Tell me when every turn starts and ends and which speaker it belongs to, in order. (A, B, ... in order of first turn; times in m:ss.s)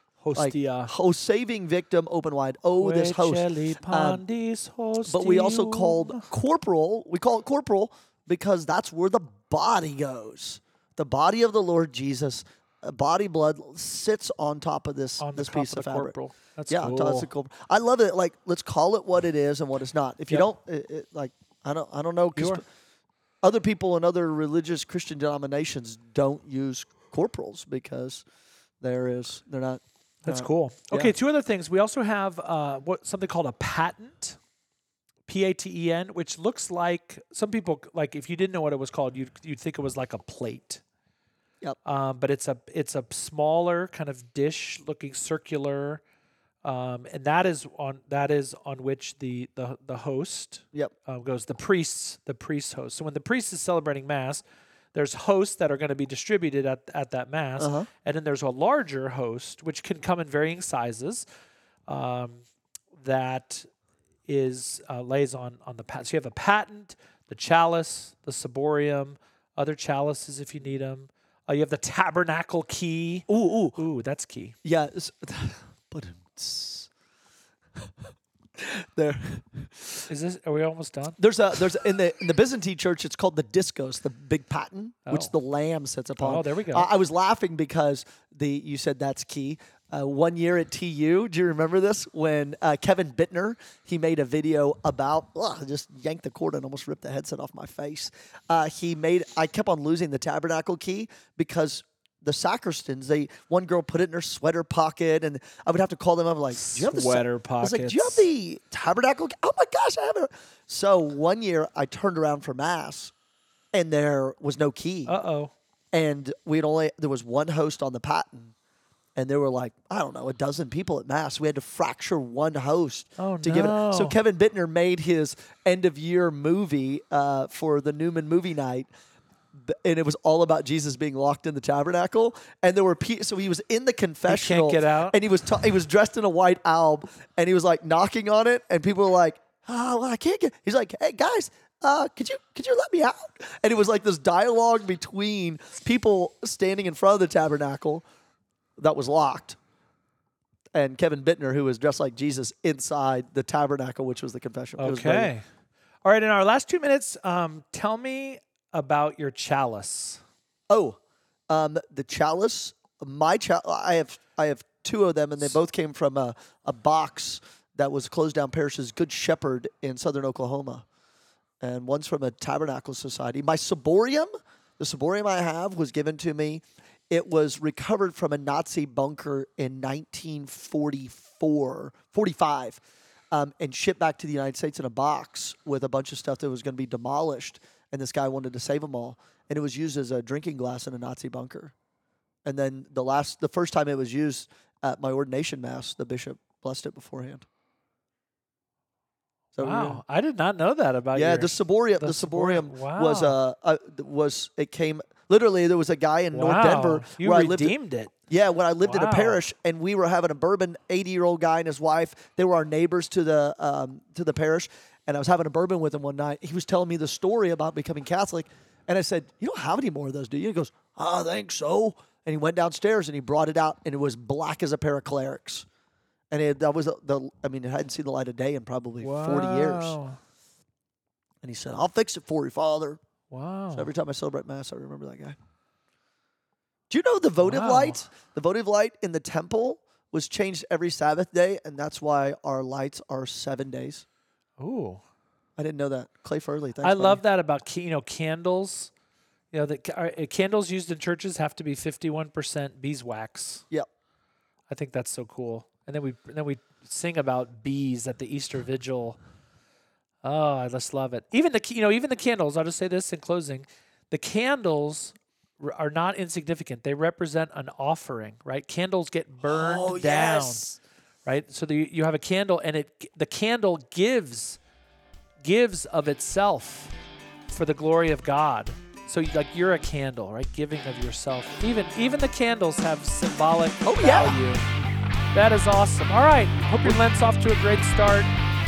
0:00.2-0:00.9 A
0:00.4-0:04.2 B
0:02.8-0:06.3 A
0:05.0-0:16.1 B
0:15.2-0:17.3 A
0:16.7-0:22.6 B
0:22.3-0:22.6 A
0:23.4-0:28.2 B
0:28.8-0:31.1 B
0:30.2-0:34.4 A
0:35.3-0:40.8 A
0:41.8-0:46.0 A
0:46.6-0:54.4 A
0:54.9-1:01.2 A
0:57.6-0:57.9 B
1:01.9-1:02.4 A
1:03.0-1:03.7 A
1:04.3-1:14.6 A
1:13.3-1:13.8 B
1:14.6-1:16.9 B
1:17.8-1:20.1 B
1:20.1-1:21.2 A
1:21.2-1:53.1 B
1:25.0-1:25.3 A
1:26.2-1:26.9 A
1:46.5-1:48.2 A
1:53.7-1:55.1 B
1:55.1-1:55.5 A
1:55.9-1:58.5 B
1:59.2-2:08.9 B
2:03.2-2:04.2 A
2:09.5-2:28.1 B
2:14.3-2:15.2 A
2:28.8-2:29.6 B
2:30.7-2:35.3 B
2:34.8-2:35.4 A
2:36.0-2:40.2 A
2:40.7-2:41.0 B
2:41.5-2:50.8 B
2:51.6-3:02.8 B
3:03.3-3:11.7 B
3:12.4-3:17.4 B
3:19.5-3:20.0 B
3:19.6-3:23.4 A
3:21.1-3:27.8 B
3:26.3-3:28.1 A
3:28.3-3:45.6 B
3:28.8-3:29.4 A
3:46.3-3:50.0 B
3:49.0-3:50.2 A
3:51.4-3:53.0 B
3:53.3-3:53.9 A
3:53.7-3:55.4 B
3:56.9-4:04.0 B
3:57.4-3:58.0 A
4:04.6-4:05.0 A
4:05.6-4:07.2 B
4:06.8-4:08.9 A
4:09.5-4:13.6 A
4:14.7-4:19.2 A
4:20.2-4:30.7 A
4:29.4-4:30.8 B
4:31.2-4:34.6 A
4:35.4-4:36.9 A
4:37.5-4:44.6 A
4:43.8-4:44.4 B
4:45.3-4:48.3 A